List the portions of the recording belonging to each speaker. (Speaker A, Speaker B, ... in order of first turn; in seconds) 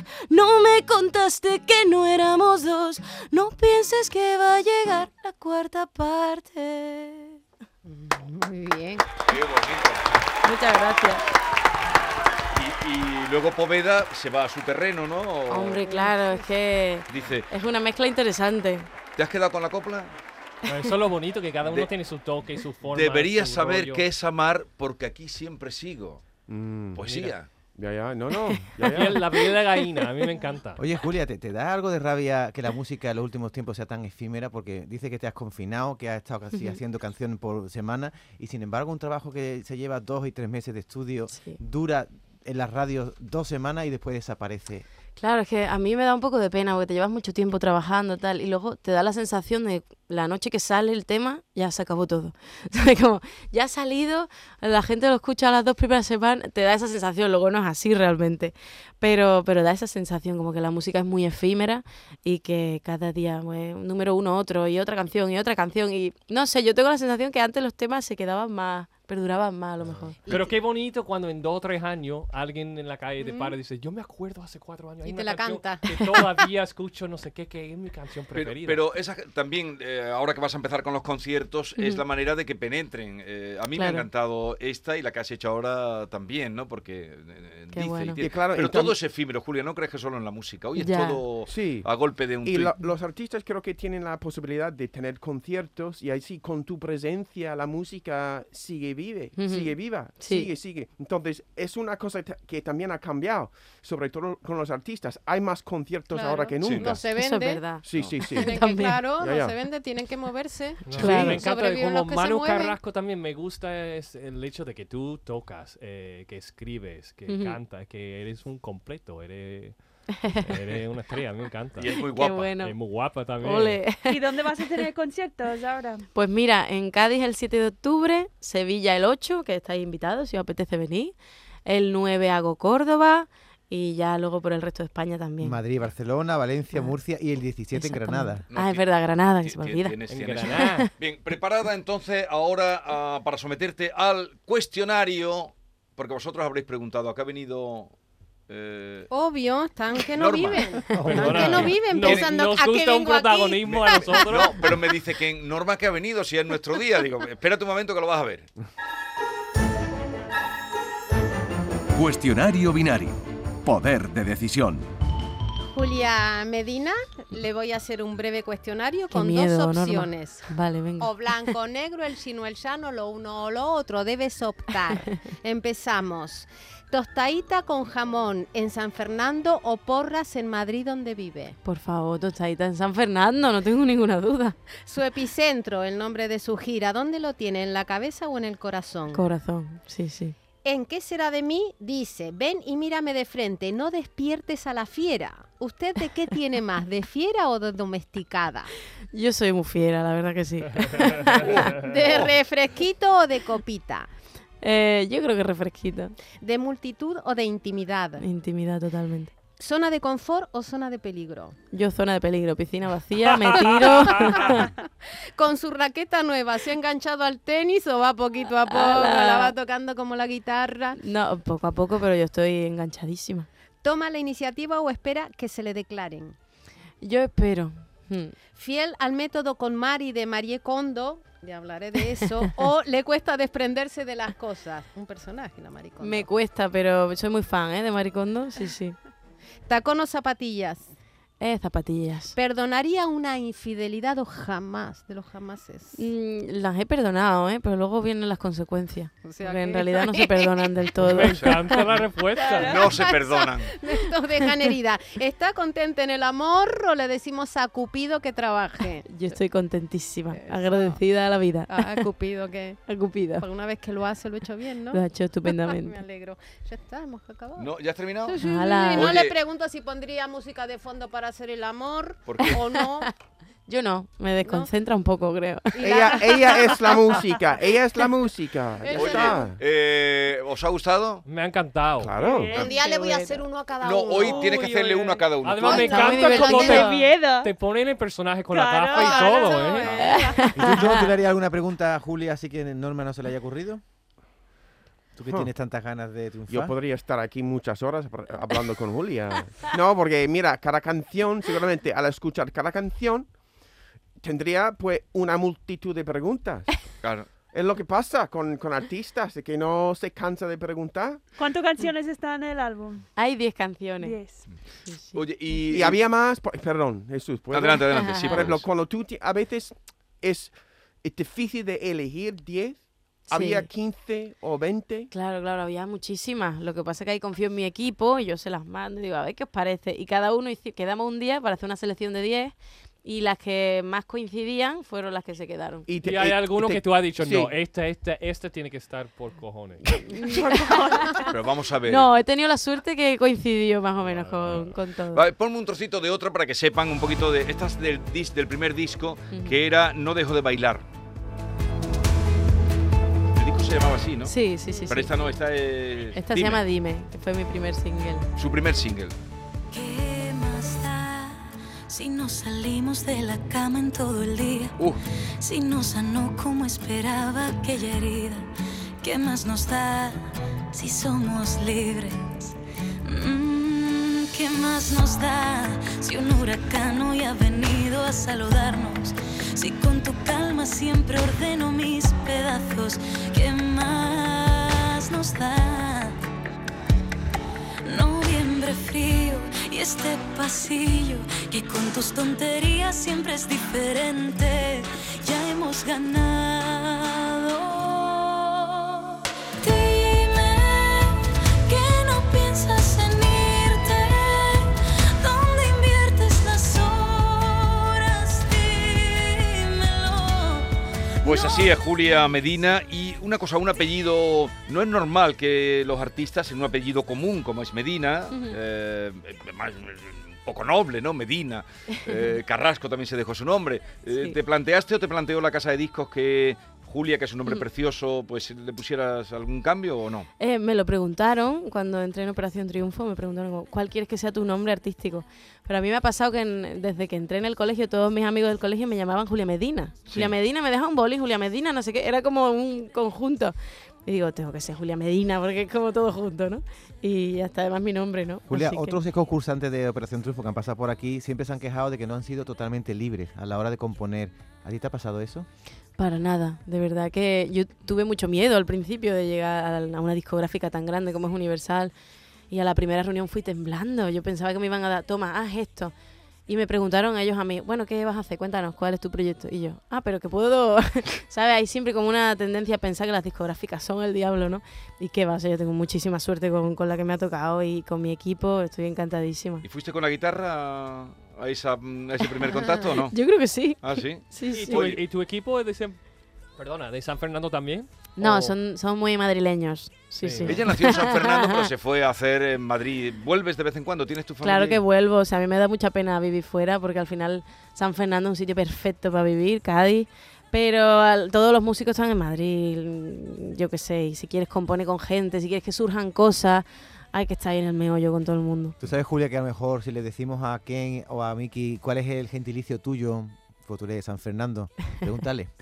Speaker A: 0.3-0.8, 10.4-11.2, 15.5-18.9, 45.2-70.2, 73.2-73.5, 81.8-82.0, 83.7-84.1, 87.7-88.2, 90.8-91.3, 99.4-100.5, 107.0-109.0, 110.9-111.4, 117.3-117.6, 120.2-120.6, 122.1-122.8, 123.4-124.2, 126.1-131.1, 131.7-135.6, 136.7-137.0, 137.7-140.0, 140.5-140.9, 169.1-171.5, 174.9-175.2, 181.6-184.6, 189.1-190.3, 199.1-201.9, 204.6-206.1, 208.2-209.3, 211.7-214.7, 218.7-219.5, 220.9-223.5, 227.0-228.4, 232.2-232.6, 236.0-238.9, 241.4-242.3, 245.9-251.8, 259.0-262.1, 262.9-263.5, 264.9-266.0, 268.4-269.2, 272.4-273.1, 273.7-276.2, 282.6-283.4, 285.9-286.9, 290.0-291.1, 313.2-314.1, 314.9-315.2, 317.9-318.4, 323.3-323.7, 325.1-335.9, 340.1-341.3, 341.8-345.2, 349.3-349.6, 354.2-355.2, 356.1-358.3, 418.3-418.6, 424.1-424.4, 430.4-449.0, 456.0-461.9, 462.5-465.9, 466.5-479.6, 482.4-484.9, 488.2-491.7, 494.4-508.8
Speaker B: 0.8-7.1, 359.7-364.8, 365.4-368.4, 369.0-386.2, 387.8-411.7
Speaker C: 7.8-9.0, 15.9-16.5, 75.0-75.8, 106.1-107.8, 108.3-112.8, 149.1-154.3, 165.7-181.6, 184.8-189.2, 190.6-198.7, 201.7-204.1, 206.4-208.2, 209.6-211.6, 213.9-214.7, 215.3-221.0, 223.8-226.3, 228.5-236.3, 239.7-240.8, 242.3-246.0, 249.2-250.7, 252.4-259.4, 260.3-261.0, 261.7-262.8, 263.4-267.7, 268.2-273.1, 274.4-274.7, 275.7-277.3, 278.8-279.6, 282.5-284.7, 285.6-286.9, 288.9-290.9
Speaker D: 9.3-10.0, 12.5-15.8, 17.1-17.5, 19.1-20.1, 21.6-21.9, 22.9-26.2, 26.9-27.5, 78.3-92.7, 106.6-106.9, 107.9-108.2, 121.8-122.5, 138.5-147.9, 148.5-149.1, 150.0-152.3, 153.6-158.5, 252.7-253.7, 267.6-268.4, 268.9-269.4, 272.2-272.6, 278.9-281.2, 283.8-286.6, 307.0-307.3, 315.1-316.0, 317.5-318.6, 341.3-342.1, 345.1-350.8, 353.3-354.4, 354.9-356.6, 358.4-359.1, 411.2-430.3, 440.1-440.3, 479.6-483.1, 483.8-485.0, 490.4-494.8
Speaker E: 20.7-24.0, 27.0-27.3, 28.9-30.8, 70.3-78.8, 110.8-119.8, 120.3-121.9, 122.6-123.8, 140.1-140.9, 150.9-154.7, 200.9-201.7, 251.0-252.8, 281.2-282.2, 284.2-289.9, 336.0-340.0, 344.0-344.8, 484.5-486.0, 486.6-488.5, 490.2-490.5
Speaker F: 26.5-27.0, 27.8-29.3, 88.2-89.0, 91.5-91.9, 92.4-107.0, 107.8-108.6, 109.2-109.5, 111.0-111.4, 275.8-279.6, 282.0-282.6, 295.2-295.5, 296.5-303.3, 304.2-306.7, 307.5-311.2, 315.7-325.1, 335.9-337.5
Speaker G: 30.8-44.9, 135.4-138.5, 290.5-293.8, 295.1-296.7, 448.5-455.5, 508.8-515.5
Speaker H: 124.1-126.0, 252.4-252.9, 282.1-282.6, 286.2-287.5, 288.5-289.9, 311.4-313.0, 314.0-314.4, 340.3-341.2
Speaker I: 161.9-164.8